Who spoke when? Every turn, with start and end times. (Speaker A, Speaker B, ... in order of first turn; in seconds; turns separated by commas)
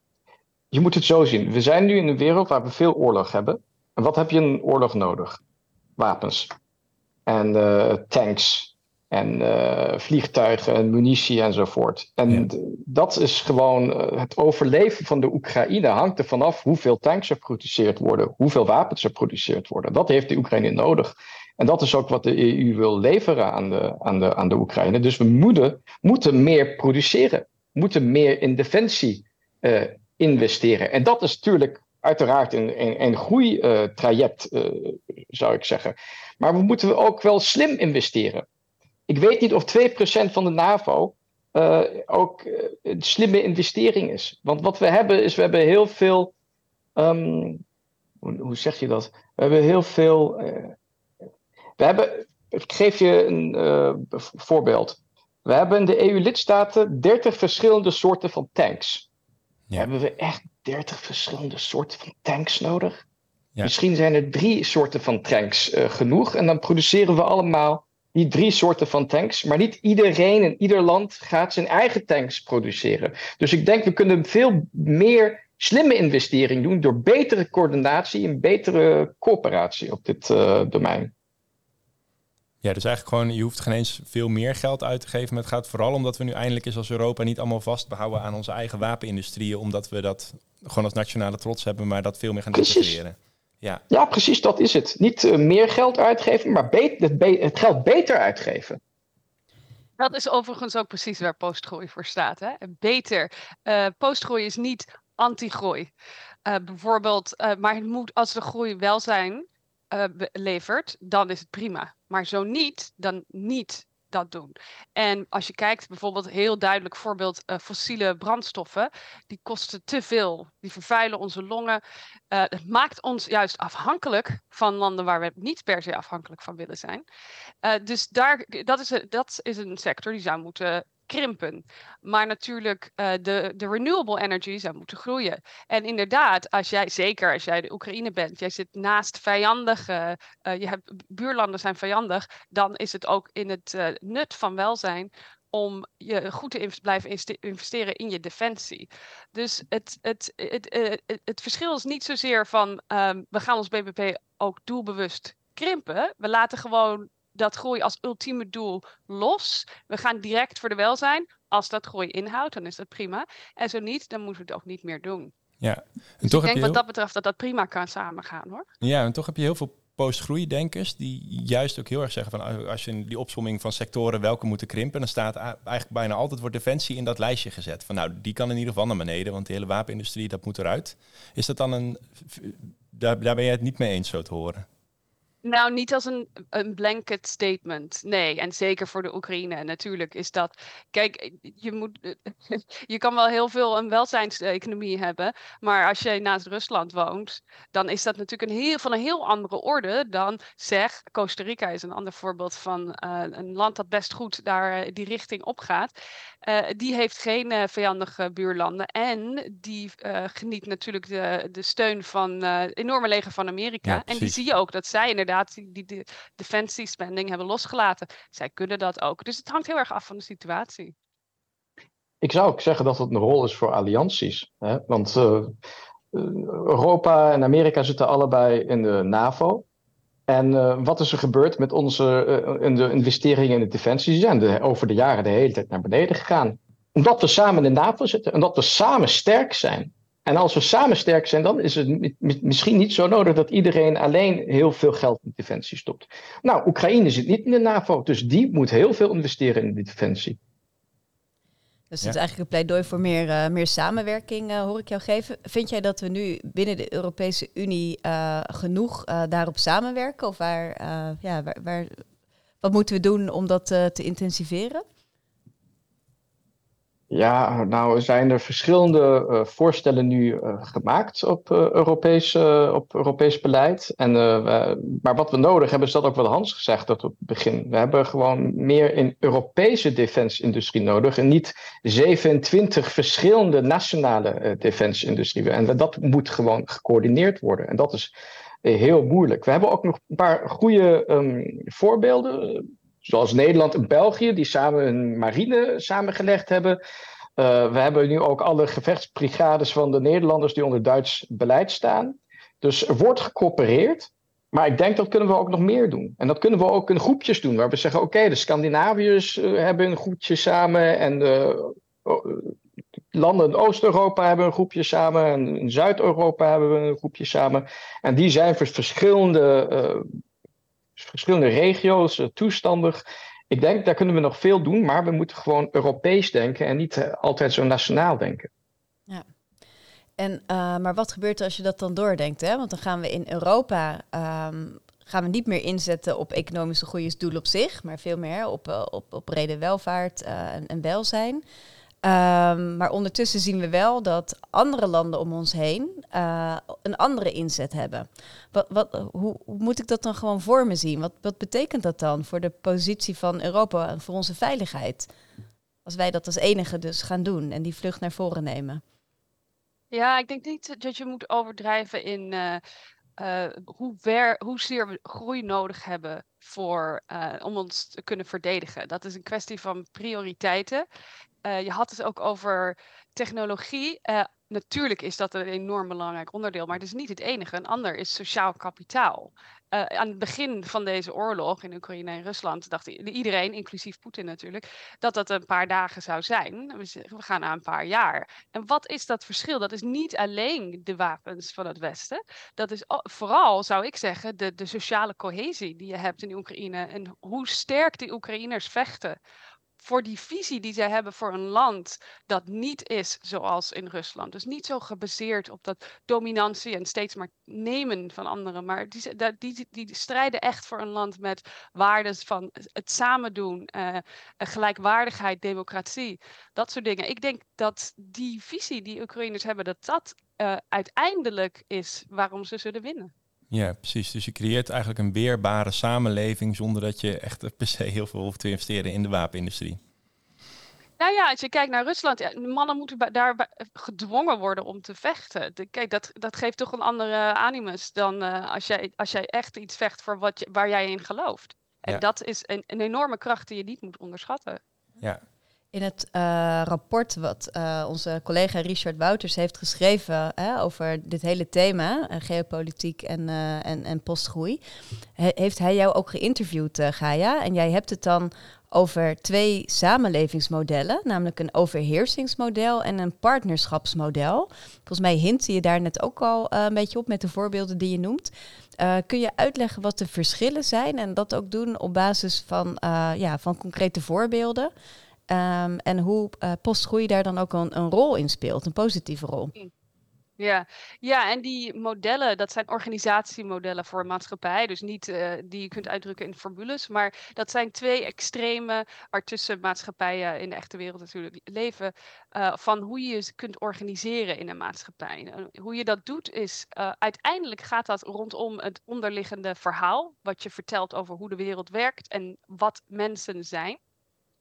Speaker A: 0.7-5.4, Speaker A: 6.0-6.5, Speaker A: 7.3-38.4, Speaker A: 39.1-46.3, Speaker A: 47.0-47.6, Speaker A: 48.2-50.7, Speaker A: 51.8-59.0, Speaker A: 59.8-63.0, Speaker A: 63.6-81.1, Speaker B: 82.6-93.8, Speaker A: 92.5-93.0, Speaker A: 93.9-98.8, Speaker C: 100.0-105.9, Speaker C: 106.5-121.8, Speaker C: 122.3-127.0, Speaker C: 127.6-165.3, Speaker B: 165.6-166.8, Speaker C: 166.2-168.7, Speaker B: 168.8-184.7, Speaker C: 185.4-205.9, Speaker C: 206.4-220.9, Speaker B: 213.8-214.4, Speaker A: 222.2-225.6, Speaker A: 226.1-229.6, Speaker A: 230.3-250.4, Speaker D: 251.9-262.0, Speaker D: 262.6-264.8, Speaker A: 267.1-288.1, Speaker A: 288.6-296.8, Speaker A: 297.4-312.5, Speaker A: 313.1-320.1, Speaker A: 321.0-328.5, Speaker D: 330.2-341.4, Speaker D: 342.0-355.1, Speaker D: 355.8-358.8, Speaker C: 359.9-362.6, Speaker C: 363.2-370.8, Speaker C: 371.4-399.2, Speaker C: 399.8-423.1, Speaker B: 423.5-429.8, Speaker C: 431.0-444.6, Speaker D: 445.7-454.6, Speaker D: 455.2-474.7, Speaker D: 475.3-479.5, Speaker C: 480.4-503.8